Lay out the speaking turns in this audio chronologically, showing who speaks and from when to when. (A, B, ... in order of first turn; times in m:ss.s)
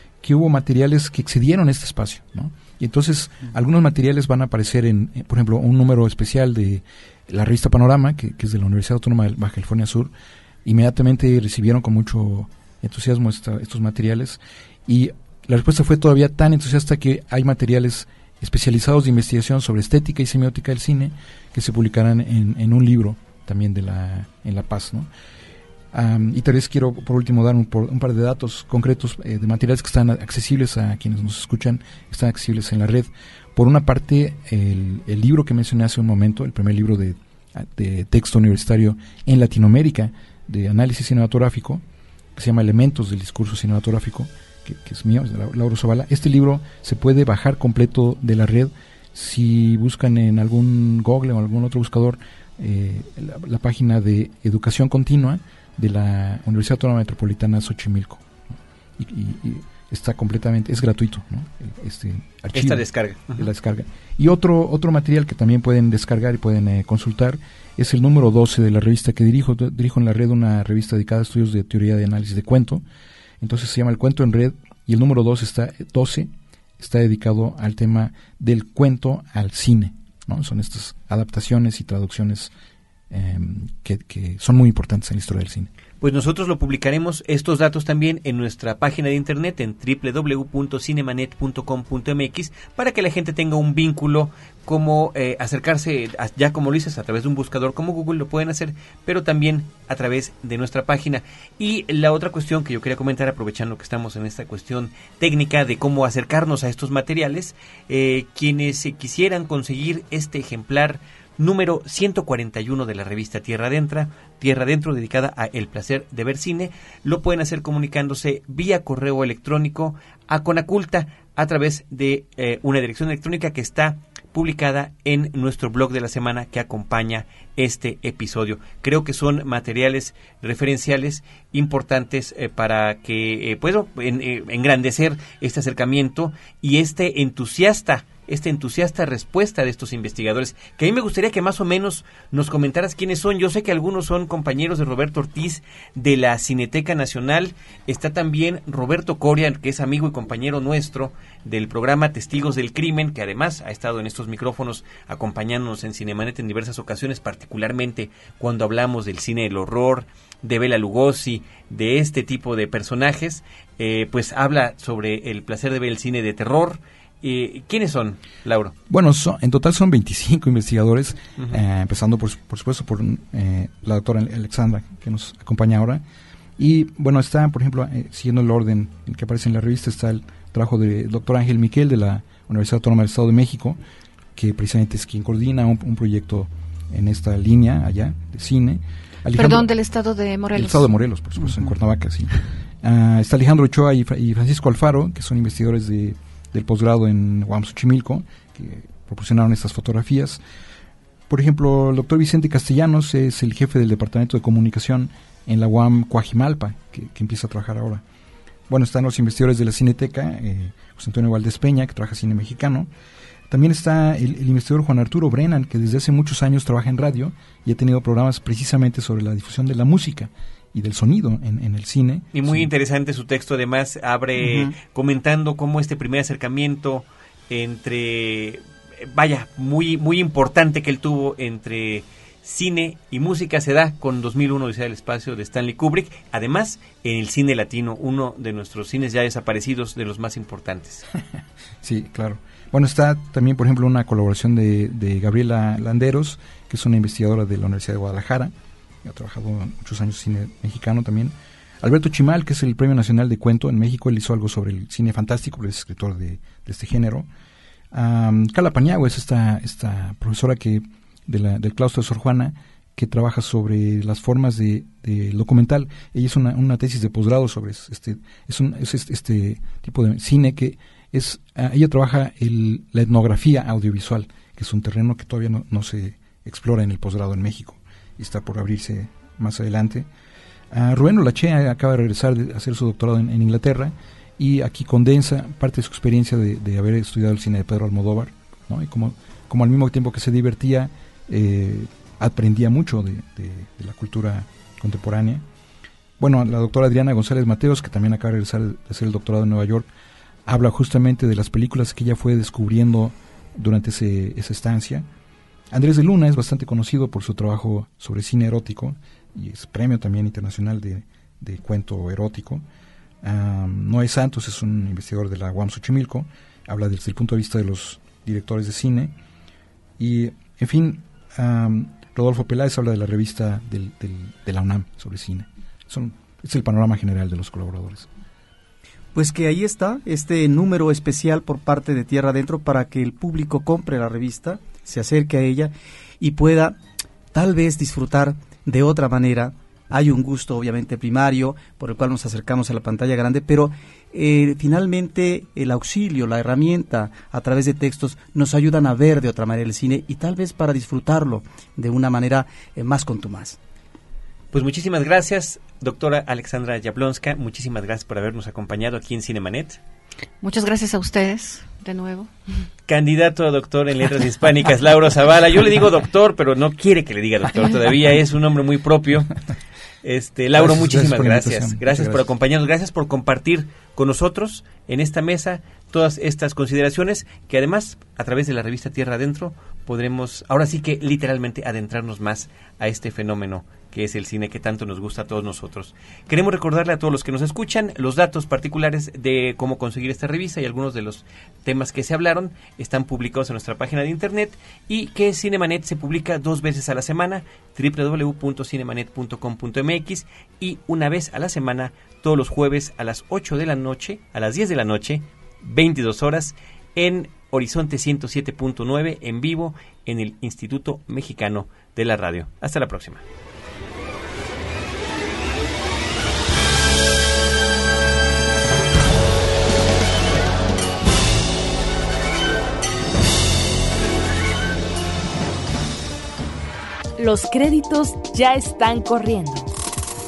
0:00.2-0:10.1 A
0:10.6-0:25.1 A
0:25.9-0:41.8 A
0:42.4-0:58.3 A
0:59.0-1:12.8 A
1:02.6-1:03.4 B
1:13.4-1:22.5 A
1:23.1-1:25.7 A
1:26.0-2:48.8 B
2:48.9-2:56.0 A
2:56.6-3:03.8 A
3:04.4-3:09.7 A
3:09.3-3:10.9 C
3:10.5-3:20.4 A
3:21.3-3:28.0 A
3:28.7-3:32.9 A
3:33.5-3:42.7 A
3:42.3-4:01.1 B
3:44.4-3:44.7 D
4:01.8-4:08.5 A
4:09.0-4:17.3 A
4:17.9-4:40.1 A
4:40.7-4:55.4 A
4:56.2-4:59.9 A
5:00.5-5:05.1 A
5:05.7-5:12.6 A
5:13.2-5:19.1 A
5:20.0-5:28.1 A
5:29.2-5:36.8 D
5:37.3-5:53.6 D
5:54.5-5:59.8 B
6:00.4-6:02.3 C
6:02.9-6:09.3 B
6:10.0-6:53.2 B
6:10.5-6:12.3 A
7:07.2-7:09.7 E